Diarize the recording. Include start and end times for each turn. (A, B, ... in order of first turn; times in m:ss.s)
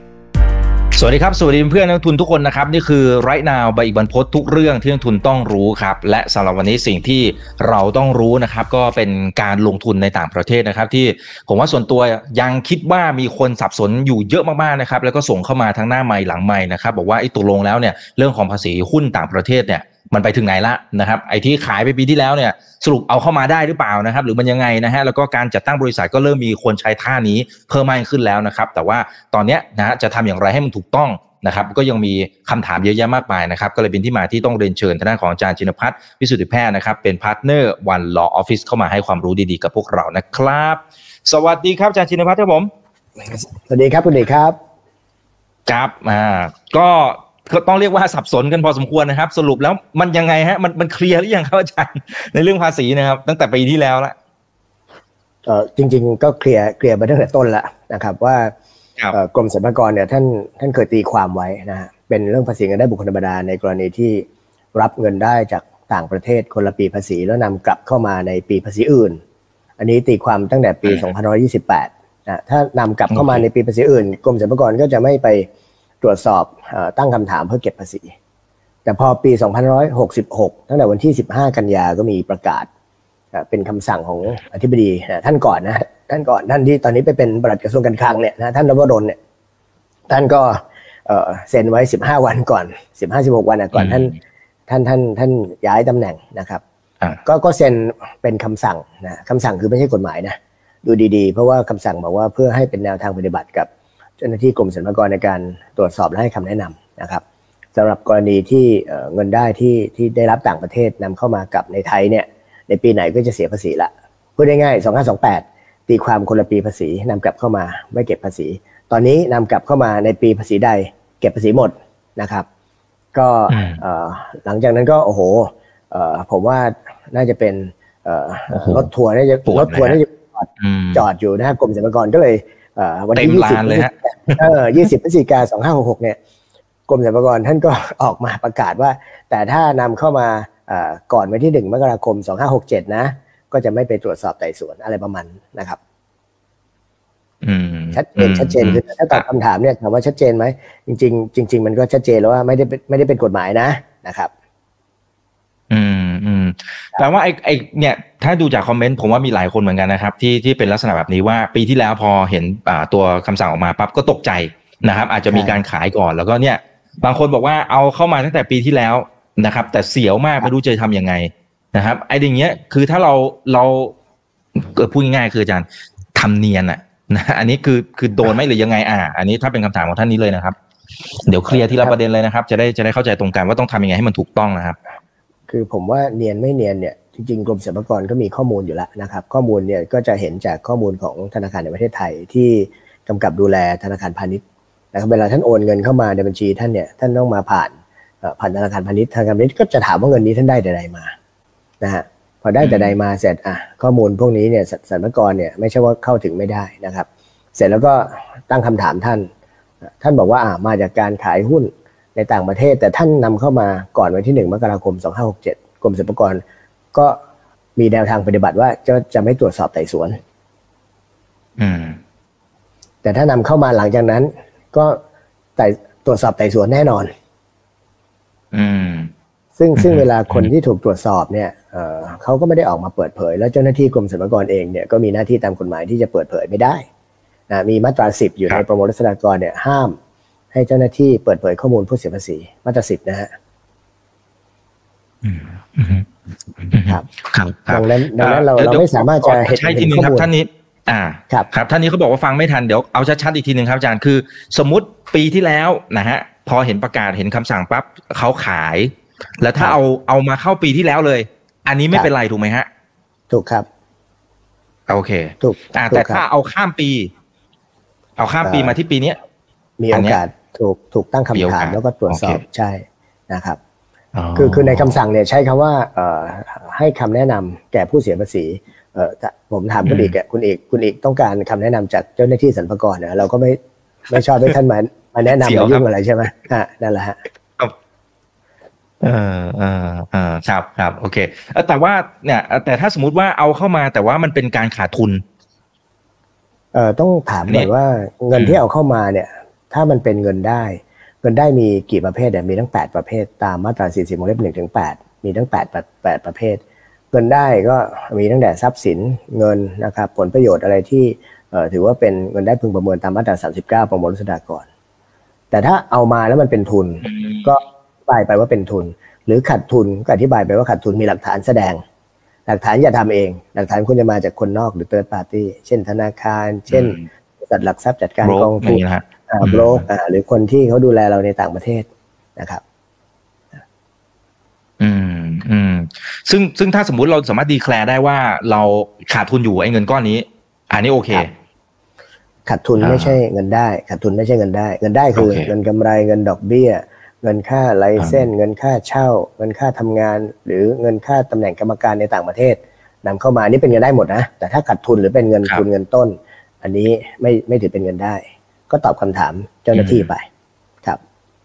0:00.9-0:42.7 A
0:43.2-0:44.6 B
0:45.7-0:54.1 A
0:55.4-0:58.5 B
0:59.1-1:09.2 B
1:09.8-1:15.5 B
1:13.1-1:13.4 A
1:16.0-1:18.1 B
1:18.8-1:22.7 B
1:23.3-1:29.2 B
1:30.1-1:34.1 B
1:33.7-1:34.2 A
1:34.7-1:36.6 B
1:37.2-1:43.7 B
1:44.2-1:47.2 B
1:47.7-2:02.4 B
2:03.1-2:16.2 B
2:03.5-2:03.8 A
2:08.5-2:08.9 A
2:09.5-2:10.0 A
2:10.6-2:11.0 A
2:13.1-2:14.8 A
2:16.9-2:25.8 B
2:27.4-2:29.2 A
2:27.9-2:34.3 B
2:35.7-2:53.9 A
2:45.3-2:45.6 B
2:54.5-3:00.6 A
3:01.2-3:04.8 A
3:01.5-3:01.9 B
3:05.5-3:14.4 B
3:14.9-3:21.1 B
3:21.8-3:29.3 B
3:22.6-3:23.0 A
3:30.0-3:36.4 B
3:37.8-3:40.2 B
3:41.6-3:42.0 A
3:43.0-3:45.0 B
3:45.6-3:47.1 B
3:48.5-3:49.1 A
3:49.6-3:56.8 B
3:49.8-3:50.5 A
3:57.5-4:00.0 B
4:00.5-4:03.3 B
4:05.2-4:22.7 A
4:07.7-4:10.3 B
4:23.3-4:23.6 B
4:24.9-4:27.1 A
4:25.4-4:26.2 B
4:28.2-4:29.2 A
4:28.4-4:28.8 B
4:29.8-4:33.6 B
4:29.9-4:30.2 A
4:31.3-4:32.4 A
4:34.1-4:35.0 A
4:34.3-4:43.6 B
4:39.8-4:40.1 A
4:44.1-4:47.2 B
4:45.3-4:45.8 A
4:49.0-4:55.2 A
4:56.7-5:06.6 B
4:58.3-4:58.6 A
5:07.1-5:14.6 B
5:15.5-5:21.8 B
5:17.0-5:17.5 A
5:22.5-5:32.6 B
5:26.7-5:27.1 A
5:28.2-5:29.8 A
5:34.8-5:41.3 A
5:42.5-6:00.3 B
5:42.8-5:43.2 A
5:45.1-5:45.5 A
5:48.0-5:48.3 A
5:59.7-6:00.1 A